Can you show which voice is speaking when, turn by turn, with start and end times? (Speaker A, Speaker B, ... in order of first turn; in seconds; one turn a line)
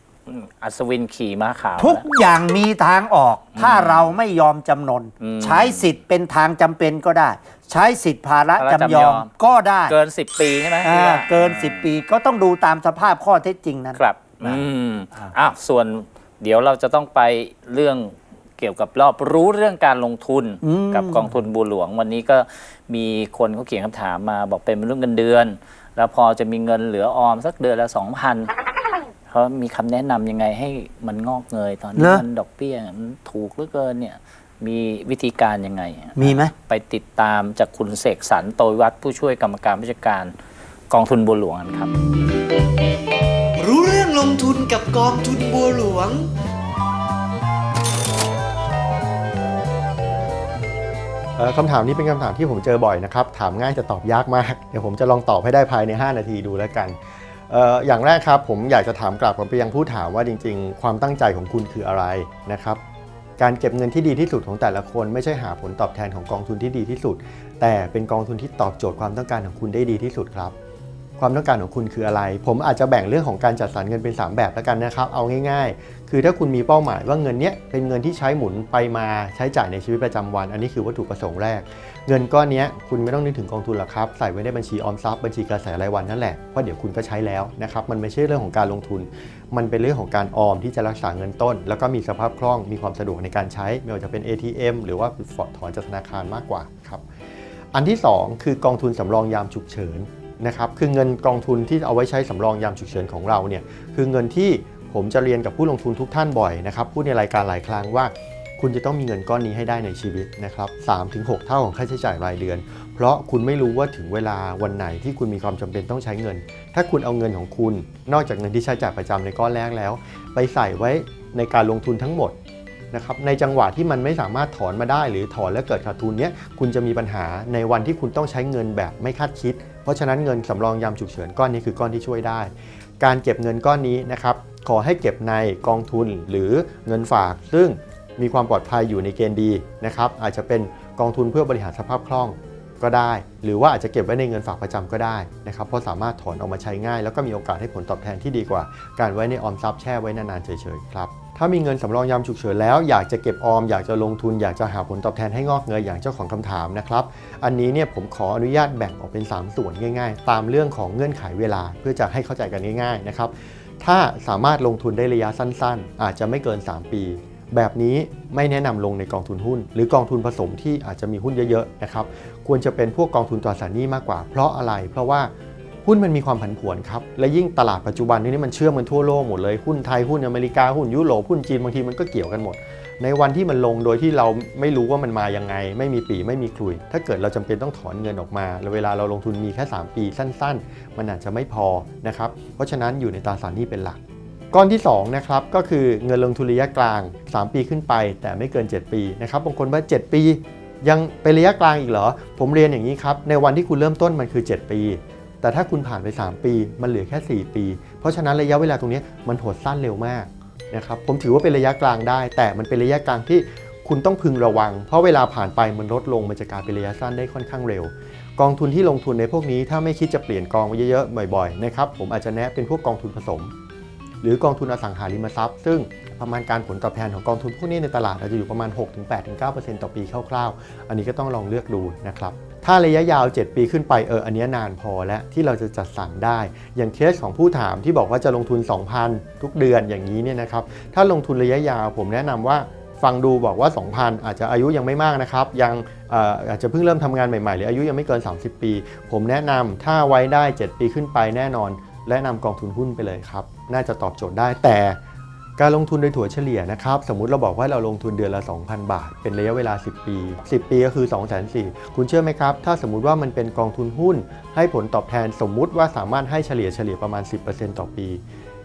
Speaker A: 0.3-2.0
Speaker B: 1.8-10.0
Speaker A: 3.6-4.1
Speaker A: 5.2-5.9
Speaker A: 8.6-9.3
Speaker A: 9.9-11.8
Speaker B: 10.8-14.6
Speaker A: 13.9-28.5
Speaker B: 20.6-21.3
Speaker A: 29.3-40.3
Speaker B: 32.0-32.2
Speaker B: 36.2-36.5
Speaker A: 40.9-41.9
Speaker C: 43.6-46.3
Speaker D: 51.4-57.0
Speaker D: 57.5-62.8
Speaker D: 63.4-70.5
Speaker D: 71.2-97.0
Speaker D: 97.7-122.3
Speaker D: 122.9-175.3
Speaker D: 175.8-194.0
Speaker D: 194.5-223.5
Speaker D: 224.2-255.0
Speaker D: 255.6-268.2